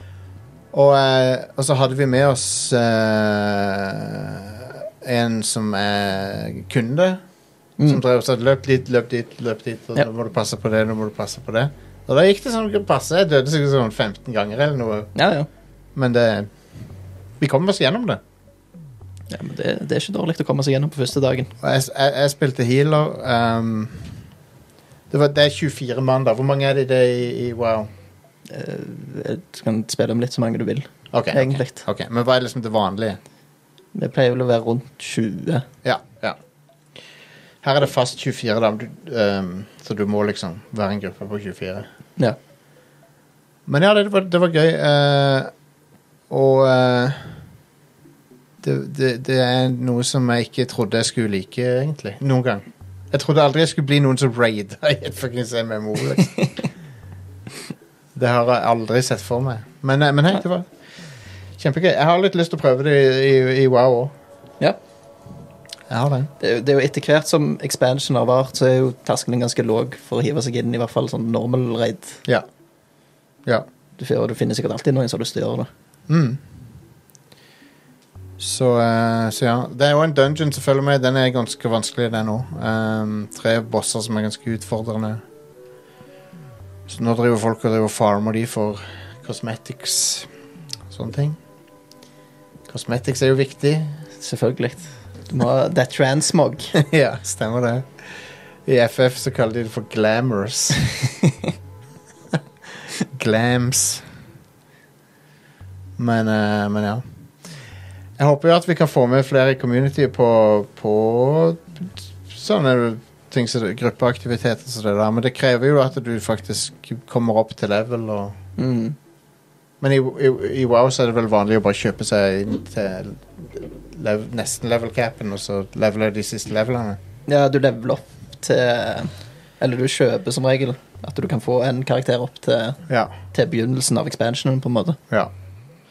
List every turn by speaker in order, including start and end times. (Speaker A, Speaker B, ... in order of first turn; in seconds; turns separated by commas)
Speaker A: 0.7-7.2, Speaker A: 7.8-15.1, Speaker B: 15.1-15.5, Speaker A: 15.9-16.5, Speaker A: 17.4-18.2, Speaker B: 19.3-21.5, Speaker A: 21.6-24.2, Speaker A: 25.1-27.9, Speaker B: 28.5-31.8, Speaker A: 31.1-33.2, Speaker B: 33.9-35.6, Speaker A: 35.8-36.4, Speaker A: 37.6-41.9, Speaker A: 43.7-45.5, Speaker A: 46.3-47.3, Speaker A: 48.6-56.5, Speaker A: 58.1-60.7, Speaker A: 61.6-64.1, Speaker A: 65.9-66.3, Speaker B: 66.4-72.2, Speaker B: 74.0-75.7, Speaker A: 76.1-76.4, Speaker A: 78.4-85.2, Speaker A: 86.9-90.3, Speaker A: 90.9-91.4, Speaker A: 92.7-94.0, Speaker B: 94.2-96.7, Speaker A: 96.7-98.0, Speaker A: 98.7-101.1, Speaker A: 103.1-104.0, Speaker A: 106.0-107.0, Speaker A: 108.2-118.3, Speaker B: 118.6-119.0, Speaker A: 119.8-127.0, Speaker B: 127.2-135.0, Speaker A: 132.9-133.1